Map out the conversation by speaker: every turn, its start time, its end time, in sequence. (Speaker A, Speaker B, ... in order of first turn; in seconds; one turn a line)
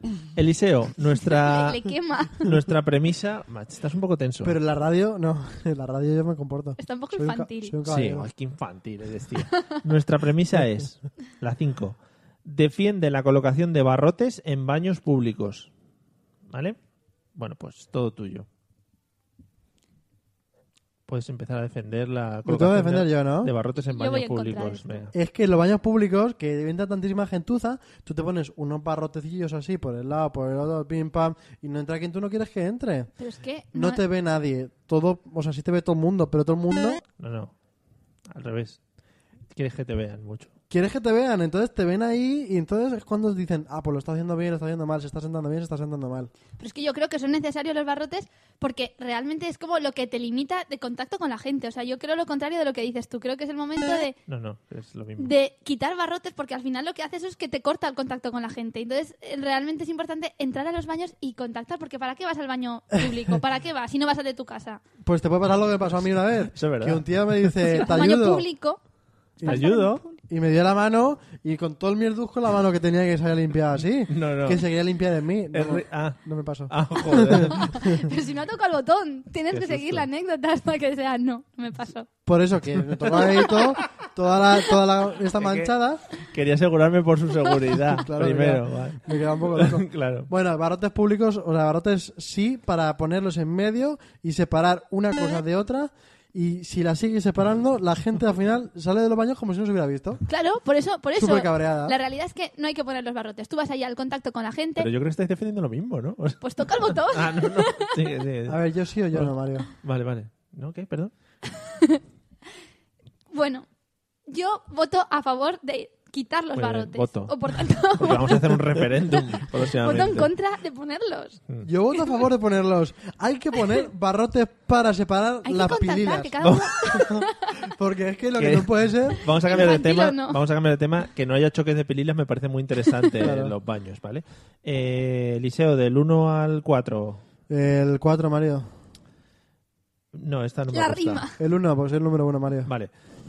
Speaker A: 0.3-4.6
Speaker B: 1.2-2.5
Speaker C: 4.4-8.3
Speaker B: 6.8-7.8
Speaker A: 7.8-15.7
Speaker A: 16.5-16.8
Speaker A: 17.3-18.5
Speaker A: 21.1-25.1
Speaker C: 22.4-23.5
Speaker B: 23.9-25.0
Speaker C: 25.1-33.1
Speaker B: 33.2-34.0
Speaker C: 33.7-37.0
Speaker A: 37.2-37.5
Speaker A: 38.3-38.8
Speaker A: 39.5-40.5
Speaker C: 40.7-46.3
Speaker B: 46.6-54.2
Speaker A: 54.3-55.3
Speaker B: 55.2-64.8
Speaker C: 65.0-68.5
Speaker A: 66.5-67.8
Speaker B: 67.7-68.8
Speaker C: 69.4-78.0
Speaker B: 69.4-70.1
Speaker A: 69.4-70.0
Speaker A: 74.1-74.6
Speaker A: 75.5-78.0
Speaker B: 77.6-82.1
Speaker A: 79.5-80.1
Speaker C: 82.2-86.0
Speaker A: 82.7-83.7
Speaker A: 85.4-90.3
Speaker C: 87.8-100.2
Speaker B: 100.3-104.9
Speaker C: 101.2-102.0
Speaker A: 104.8-108.6
Speaker B: 106.4-108.1
Speaker C: 108.5-109.7
Speaker A: 109.1-111.1
Speaker B: 111.5-112.0
Speaker B: 113.3-113.7
Speaker B: 114.3-121.4
Speaker A: 116.5-117.3
Speaker A: 117.9-120.3
Speaker C: 121.6-129.2
Speaker B: 125.4-127.5
Speaker A: 126.4-127.0
Speaker A: 128.3-137.2
Speaker B: 129.4-130.4
Speaker C: 133.2-133.5
Speaker C: 137.5-138.7
Speaker A: 140.1-141.2
Speaker B: 140.7-141.3
Speaker C: 141.4-142.7